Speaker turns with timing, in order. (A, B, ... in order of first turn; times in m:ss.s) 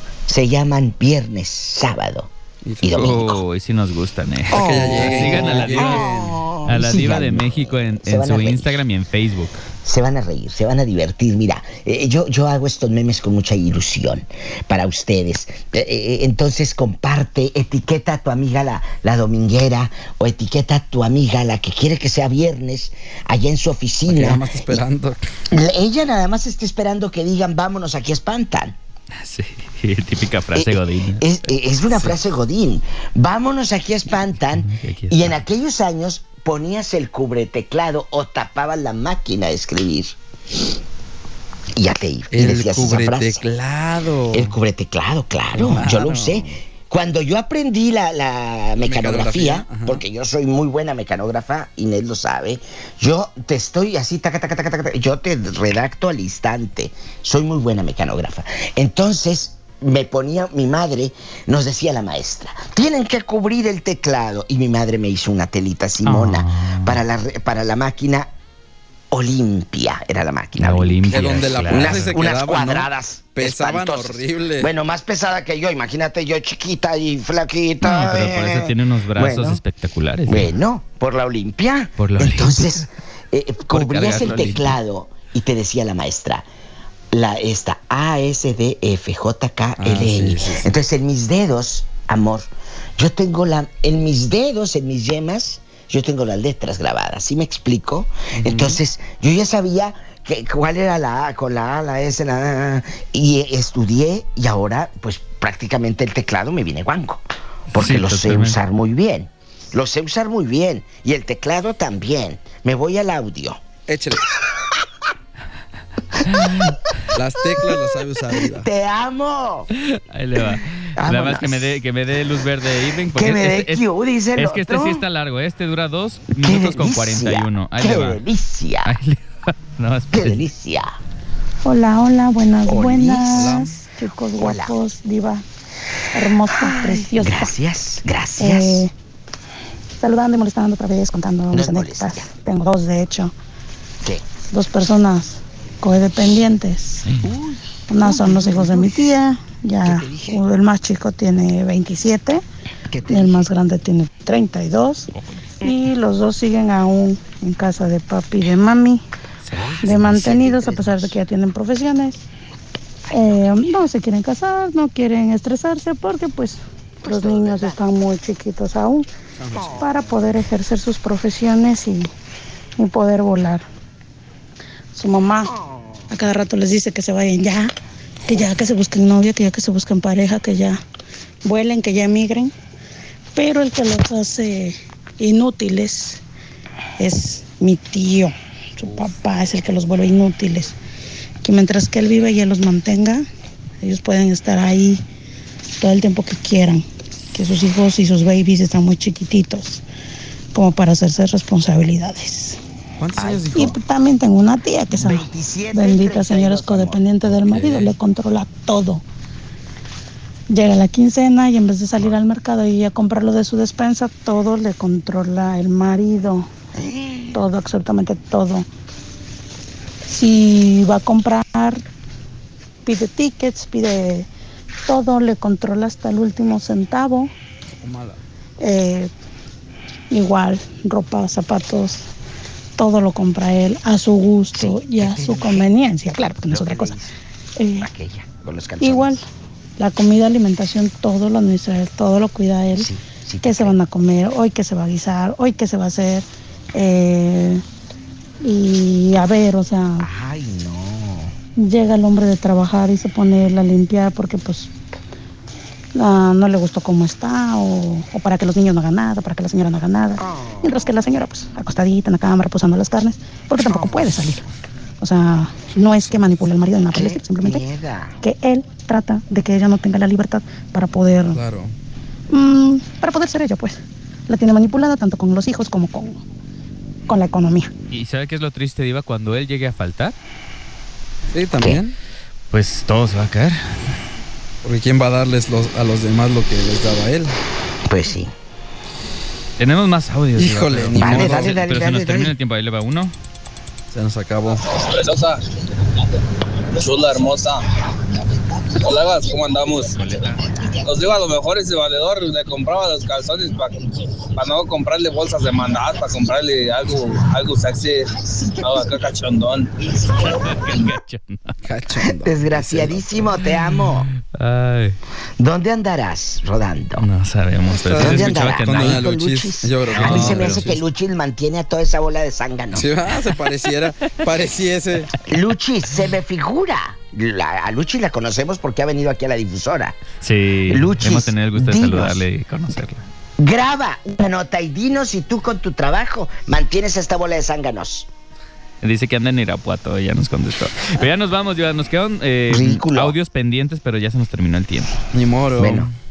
0:00.3-0:02.3 A
0:02.6-0:03.2 B
0:02.8-0:03.4 A
0:03.0-0:06.1 C
0:04.5-0:06.5 B
0:04.5-0:08.8 A
0:06.6-0:09.6 C
0:09.8-0:24.8 A
0:24.1-0:25.2 B
0:25.5-0:28.8 A
0:29.2-0:31.3 C
0:30.6-0:40.2 A
0:31.9-0:32.2 B
0:34.6-0:35.4 C
0:41.8-0:43.4 A
0:42.3-0:44.6 B
0:44.3-1:08.3 A
0:45.6-0:46.6 B
0:48.8-0:50.0 B
1:06.0-1:07.0 C
1:09.1-1:19.6 A
1:10.6-1:12.2 C
1:11.1-1:14.7 B
1:17.8-1:20.5 C
1:20.3-1:26.5 A
1:22.0-1:22.8 C
1:23.7-1:24.8 C
1:24.1-1:24.4 B
1:27.1-1:53.6 A
1:29.8-1:30.8 B
1:38.4-1:38.8 B
1:47.8-1:48.6 C
1:53.9-1:54.2 B
1:56.3-1:56.6 C
1:57.1-1:58.7 B
1:58.3-1:59.7 A
1:59.9-2:08.2 C
2:01.0-2:01.8 A
2:03.1-2:05.0 A
2:06.4-2:08.9 A
2:08.8-2:10.5 C
2:10.1-2:10.9 A
2:11.6-2:15.4 D
2:12.7-2:13.6 A
2:13.3-2:13.8 B
2:14.3-2:14.8 A
2:16.1-2:17.5 D
2:16.5-2:18.9 A
2:18.4-2:18.9 D
2:20.0-2:23.3 D
2:21.5-2:22.3 A
2:24.5-2:27.0 D
2:27.2-2:29.1 A
2:27.9-2:32.4 D
2:29.8-2:30.4 A
2:32.9-2:33.5 A
2:33.1-2:35.1 D
2:35.6-2:39.0 D
2:39.4-2:40.3 C
2:39.6-2:41.2 A
2:39.8-2:42.2 D
2:43.1-2:49.1 D
2:47.0-2:47.8 A
2:49.4-2:50.0 B
2:49.8-2:52.1 D
2:52.8-2:53.7 D
2:54.9-2:55.5 D
2:56.1-2:57.7 D
2:58.3-3:00.8 D
3:01.4-3:02.5 D
3:03.4-3:06.2 D
3:07.0-3:10.8 D
3:11.4-3:13.2 D
3:13.8-3:15.0 D
3:15.8-3:19.8 D
3:20.5-3:22.6 D
3:23.0-3:23.8 B
3:23.2-3:23.7 A
3:23.6-3:29.0 D
3:24.9-3:27.7 A
3:27.4-3:27.9 B
3:30.5-3:36.5 D
3:36.8-3:37.4 A
3:37.3-3:38.7 D
3:40.1-3:41.8 D
3:42.8-3:44.3 D
3:44.9-3:47.3 D
3:47.8-3:48.2 B
3:48.6-3:49.1 D
3:50.1-3:52.1 D
3:52.8-3:57.0 D
3:54.6-3:55.6 A
3:56.5-3:57.1 A
3:57.6-3:57.9 D
3:57.8-3:59.2 A
3:58.8-3:59.2 D
3:59.8-4:02.9 D
4:02.7-4:03.8 A
4:03.4-4:07.6 D
4:08.4-4:10.1 D
4:10.0-4:11.4 A
4:11.6-4:14.7 D
4:16.0-4:24.4 D
4:20.2-4:20.9 A
4:23.7-4:24.2 A
4:25.0-4:27.6 D
4:26.9-4:28.2 A
4:28.2-4:31.4 D
4:31.3-4:31.7 B
4:32.3-4:36.2 D
4:37.1-4:37.7 D
4:37.9-4:40.2 C
4:41.3-4:42.0 B
4:42.5-4:43.8 C
4:44.6-4:47.4 B
4:47.9-4:48.3 A
4:49.6-4:53.1 C
4:50.4-4:51.6 B
4:51.0-4:52.3 A
4:53.9-4:54.6 B
4:54.7-4:55.4 E
4:56.8-4:57.6 E
4:58.8-5:00.0 E
5:00.0-5:00.5 C
5:00.8-5:03.8 E
5:04.4-5:10.8 E
5:10.3-5:11.6 C
5:11.6-5:13.3 B
5:12.0-5:14.1 A
5:14.1-5:15.0 C
5:15.4-5:17.0 A
5:17.0-5:19.0 C
5:17.8-5:20.8 B
5:18.0-5:22.9 A
5:19.9-5:20.7 C
5:22.7-5:25.2 B
5:25.3-5:30.0 A
5:30.2-5:33.0 C
5:30.7-5:32.2 A
5:33.4-5:38.1 A
5:38.8-5:44.9 C
5:42.5-5:43.2 A
5:45.1-5:45.9 B
5:45.6-5:45.9 A